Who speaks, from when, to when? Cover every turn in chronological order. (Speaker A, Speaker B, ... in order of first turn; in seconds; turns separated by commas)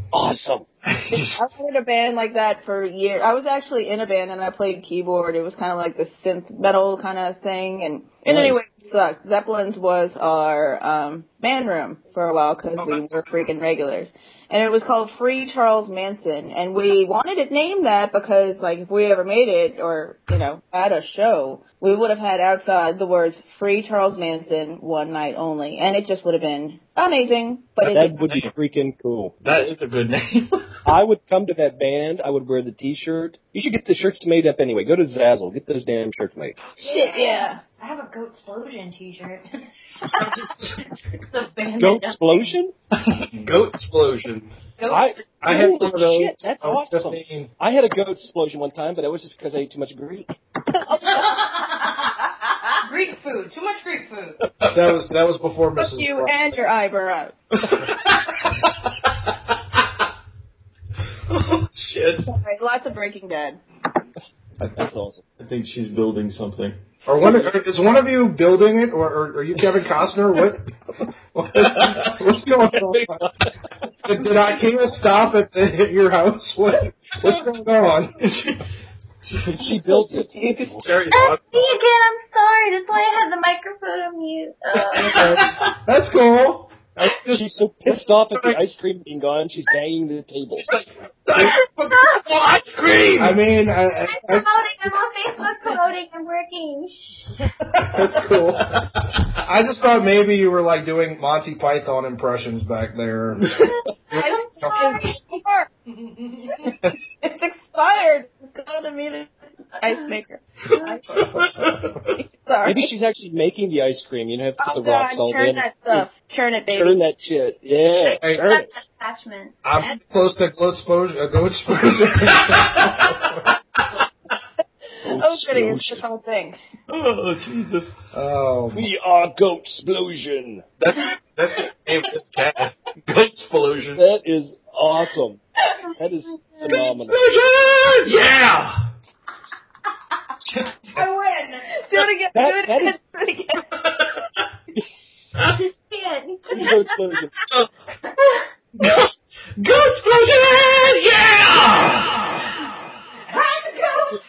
Speaker A: 0.1-0.7, Speaker B: 0.9-1.5, Speaker C: 1.1-28.1, Speaker A: 8.3-8.7, Speaker B: 12.8-13.2, Speaker A: 27.8-29.4, Speaker B: 28.2-28.5, Speaker B: 29.4-30.7, Speaker A: 30.9-36.6, Speaker D: 36.7-40.4, Speaker C: 36.8-37.6, Speaker D: 41.3-42.5, Speaker A: 41.8-42.7, Speaker B: 43.0-44.5, Speaker D: 44.8-45.4, Speaker A: 44.9-50.4, Speaker E: 45.4-47.5, Speaker C: 50.8-51.2, Speaker D: 51.0-52.1, Speaker D: 52.8-54.4, Speaker E: 54.7-56.4, Speaker C: 55.8-57.4, Speaker B: 57.7-58.4, Speaker B: 61.3-62.3, Speaker C: 62.2-63.6, Speaker A: 64.6-65.2, Speaker B: 65.4-66.8, Speaker E: 67.1-70.7, Speaker A: 67.2-67.5, Speaker E: 71.3-73.4, Speaker B: 71.6-72.1, Speaker A: 72.7-73.5, Speaker E: 74.0-78.2, Speaker B: 78.3-78.6, Speaker B: 79.2-79.6, Speaker A: 79.5-80.3, Speaker C: 79.6-80.8, Speaker B: 80.7-81.8, Speaker F: 81.1-85.4, Speaker B: 85.0-85.7, Speaker E: 85.0-88.6, Speaker A: 87.2-90.7, Speaker B: 90.6-93.4, Speaker E: 93.2-94.5, Speaker F: 94.1-97.4, Speaker E: 97.9-98.8, Speaker E: 99.4-103.6, Speaker C: 104.1-105.7, Speaker E: 104.2-104.8, Speaker F: 104.2-105.0, Speaker D: 106.0-106.7, Speaker C: 106.6-111.0, Speaker B: 111.2-112.0, Speaker E: 111.2-111.9, Speaker C: 112.2-112.9, Speaker A: 112.6-116.1, Speaker C: 114.6-117.0, Speaker A: 116.7-118.7, Speaker F: 118.0-119.6, Speaker E: 119.6-123.4, Speaker B: 122.3-123.9, Speaker A: 125.0-126.0, Speaker C: 125.1-126.6, Speaker B: 126.9-128.0, Speaker E: 128.1-128.9, Speaker A: 128.7-130.7, Speaker B: 130.8-134.0, Speaker A: 134.0-135.4, Speaker A: 136.0-137.2, Speaker B: 136.7-138.9, Speaker D: 140.9-141.7, Speaker C: 141.8-143.7, Speaker A: 142.3-143.0, Speaker F: 145.9-146.8, Speaker A: 146.5-147.3, Speaker B: 148.8-152.5, Speaker D: 153.3-154.2